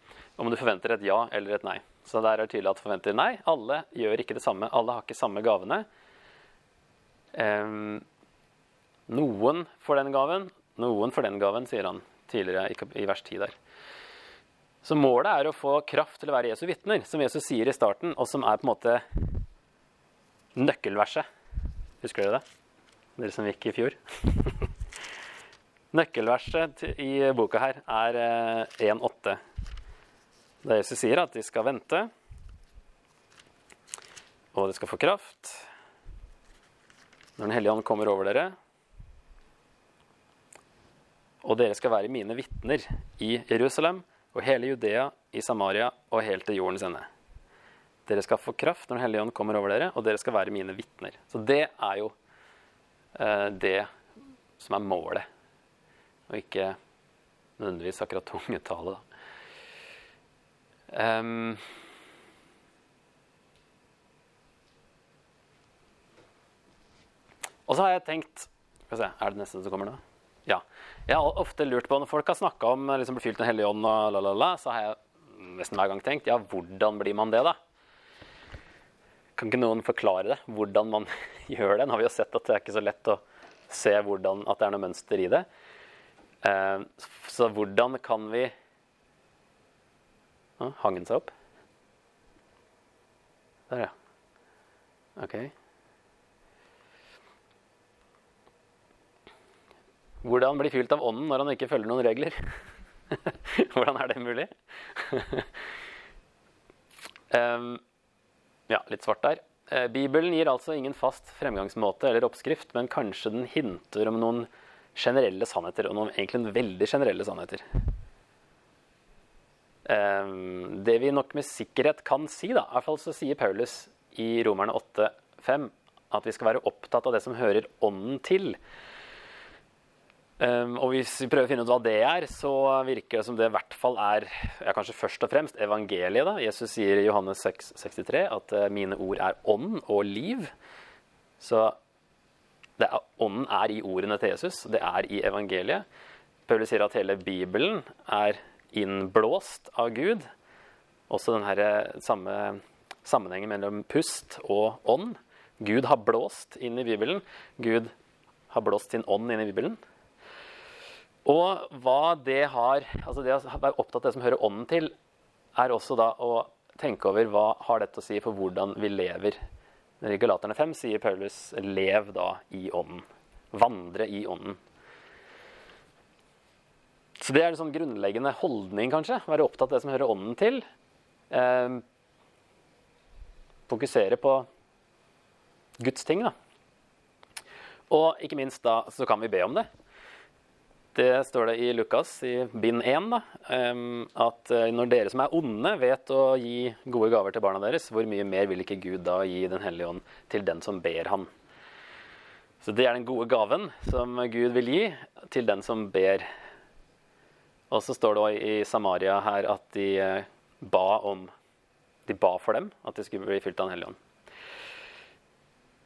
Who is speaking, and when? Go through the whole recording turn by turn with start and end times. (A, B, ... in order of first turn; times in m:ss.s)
0:00.4-0:05.9 A
0:07.3-0:08.0 A
0:09.1-0:13.5 A
0:14.8-0:19.0 A
0:20.5-0:21.3 A
0:22.0-0:22.4 A
0:23.2-0:24.7 A
0:25.9-0:29.4 A
0:30.6-0:32.1 A
0:34.5-0:35.7 A
0:37.4-0:38.5 A
0:41.4-0:47.1 A
0:48.0-0:52.1 A
0:53.1-0:53.9 A
0:54.6-0:55.3 A
0:56.3-0:56.8 A
0:57.6-0:59.0 A
1:00.9-1:01.6 A
1:07.7-1:17.6 A
1:19.4-1:25.5 A
1:26.4-1:28.5 A
1:30.6-1:31.3 A
1:35.2-1:35.5 A
1:40.2-1:42.6 A
1:43.1-1:45.5 A
1:47.3-1:47.8 A
1:48.7-1:57.6 A
1:59.8-2:08.6 A
2:10.4-2:20.5 A
2:21.4-2:21.8 A
2:22.8-2:25.8 A
2:26.5-2:30.3 A
2:31.1-2:37.9 A
2:38.5-2:39.8 A
2:41.2-2:44.9 A
2:45.5-2:49.4 A
2:50.0-2:54.6 A
2:57.2-3:00.6 A
3:01.3-3:01.8 A
3:03.7-3:04.5 A
3:05.8-3:06.3 A
3:07.9-3:09.7 A
3:10.9-3:21.3 A
3:22.6-3:26.3 A
3:27.7-3:31.3 A
3:32.1-3:34.0 A